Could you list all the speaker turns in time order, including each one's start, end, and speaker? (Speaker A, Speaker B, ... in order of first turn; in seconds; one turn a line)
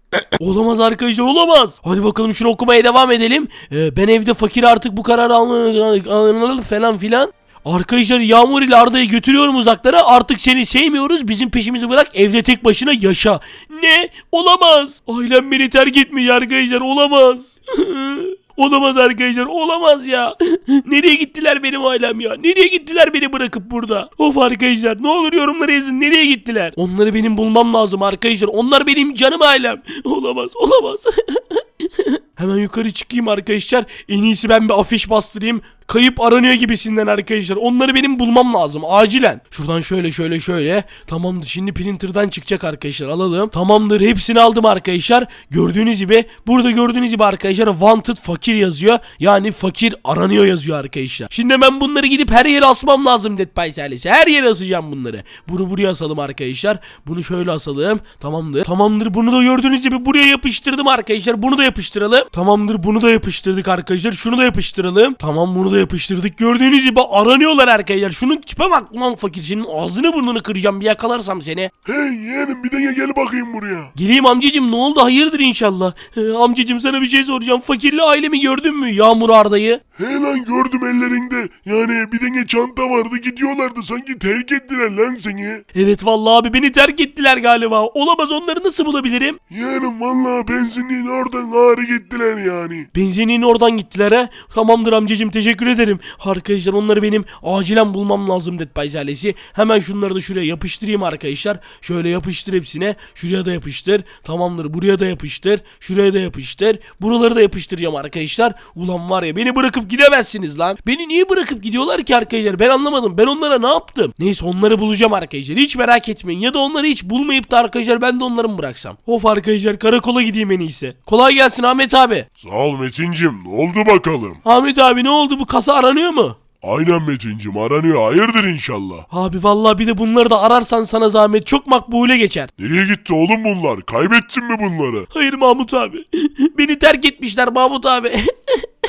Speaker A: 0.4-71.7
Speaker B: 71.8-73.9
Speaker A: 73.9-79.8
Speaker B: 80.0-85.6
Speaker A: 85.7-89.4
Speaker B: 89.5-92.9
Speaker A: 92.9-122.2
Speaker B: 122.4-124.4
Speaker A: 124.4-126.4
Speaker B: 126.6-129.1
Speaker A: 129.1-132.5
Speaker B: 132.6-135.1
Speaker A: 135.1-138.7